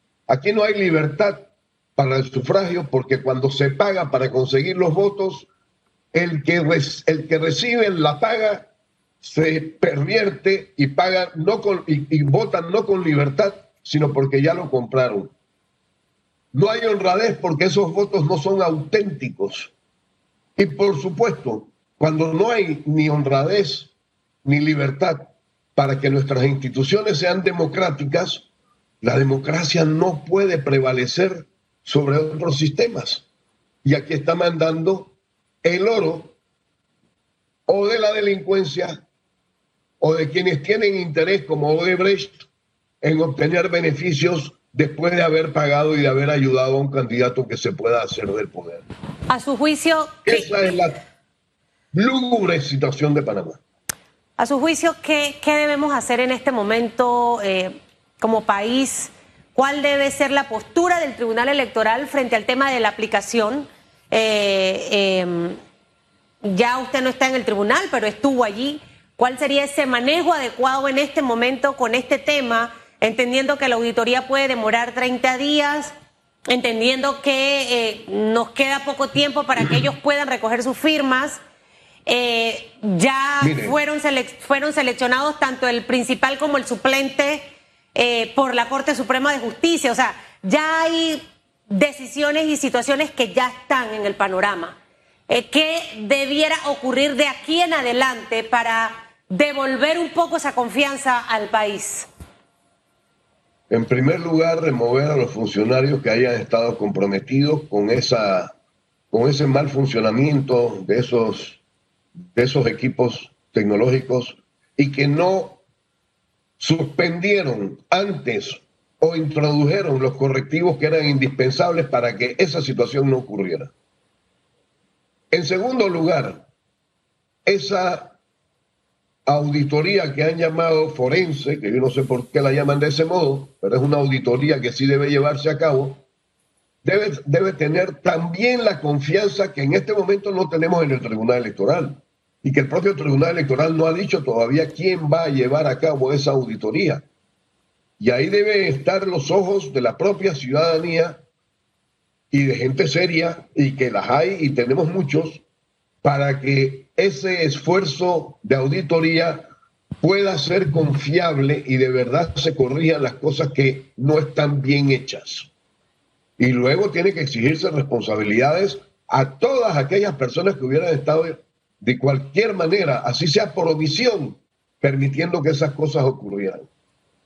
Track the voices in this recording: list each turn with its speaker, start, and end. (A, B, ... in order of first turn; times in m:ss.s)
0:00.3-0:05.5 A
0:06.1-0:08.7 A
0:09.2-0:15.3 A
0:16.5-0:19.7 A
0:20.6-0:23.9 A
0:24.4-0:28.5 A
0:29.0-0:33.2 A
0:33.8-0:36.4 A
0:37.7-0:39.0 A
0:40.0-0:42.5 A
0:43.0-0:48.8 A
0:49.3-0:50.6 B
0:50.3-0:51.0 A
0:51.9-0:53.6 A
0:54.4-1:05.6 B
1:06.4-1:15.9 B
1:16.5-1:21.4 B
1:22.1-1:34.8 B
1:23.4-1:23.8 A
1:35.3-1:42.1 B
1:43.7-1:48.5 A
1:49.1-1:51.6 A
1:52.3-1:55.6 A
1:56.6-2:03.7 A
2:05.3-2:06.5 A
2:07.4-2:08.2 A
2:09.3-2:16.0 A
2:16.8-2:27.0 A
2:28.0-2:31.2 A
2:32.3-2:35.4 A
2:36.0-2:39.5 A
2:40.0-2:45.5 A
2:46.4-2:56.7 A